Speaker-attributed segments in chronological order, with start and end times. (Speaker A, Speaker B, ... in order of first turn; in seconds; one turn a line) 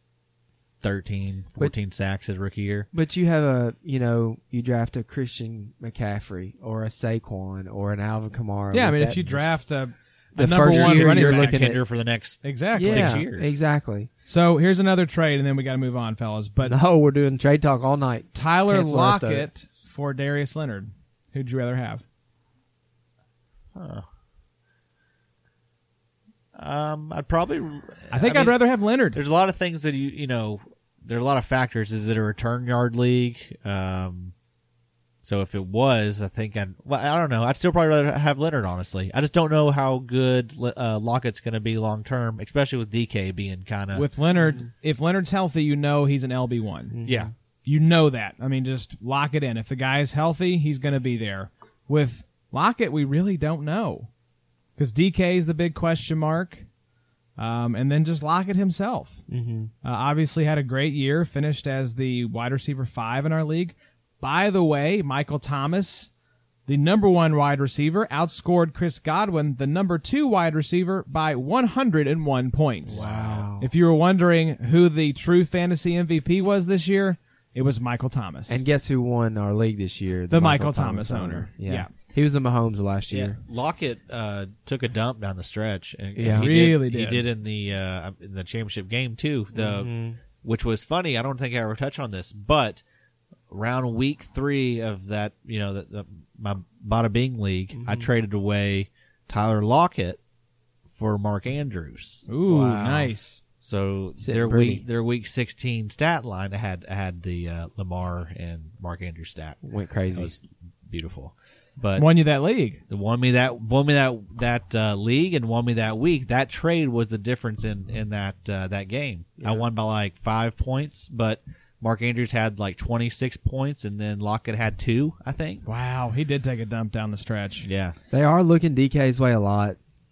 Speaker A: 0.8-2.9
Speaker B: 2.9-9.5
Speaker C: 8.7-11.6
Speaker B: 10.3-11.8
Speaker A: 10.7-13.6
Speaker C: 12.4-13.2
Speaker B: 12.7-14.1
Speaker C: 14.2-16.8
Speaker B: 16.6-19.5
Speaker C: 18.3-22.0
Speaker A: 23.7-24.1
Speaker A: 26.5-28.6
Speaker C: 28.1-29.2
Speaker A: 29.1-34.3
Speaker A: 35.2-44.1
Speaker C: 43.9-47.0
Speaker B: 46.9-47.3
Speaker A: 47.0-47.3
Speaker C: 47.6-54.1
Speaker C: 54.8-56.6
Speaker C: 57.4-59.2
Speaker B: 59.3-59.7
Speaker C: 59.8-66.1
Speaker C: 66.7-73.0
Speaker B: 72.8-73.7
Speaker A: 72.9-73.5
Speaker C: 73.6-78.6
Speaker B: 78.5-83.4
Speaker C: 80.3-81.9
Speaker A: 83.1-92.8
Speaker B: 86.2-86.5
Speaker C: 86.4-87.2
Speaker B: 89.5-90.2
Speaker A: 93.5-100.2
Speaker B: 97.7-98.1
Speaker A: 100.9-109.6
Speaker C: 102.3-103.4
Speaker B: 104.2-104.8
Speaker B: 109.6-110.3
Speaker A: 110.1-112.1
Speaker C: 112.0-112.8
Speaker A: 112.9-125.6
Speaker B: 119.4-119.7
Speaker C: 125.6-127.7
Speaker A: 127.6-128.0
Speaker B: 128.1-129.8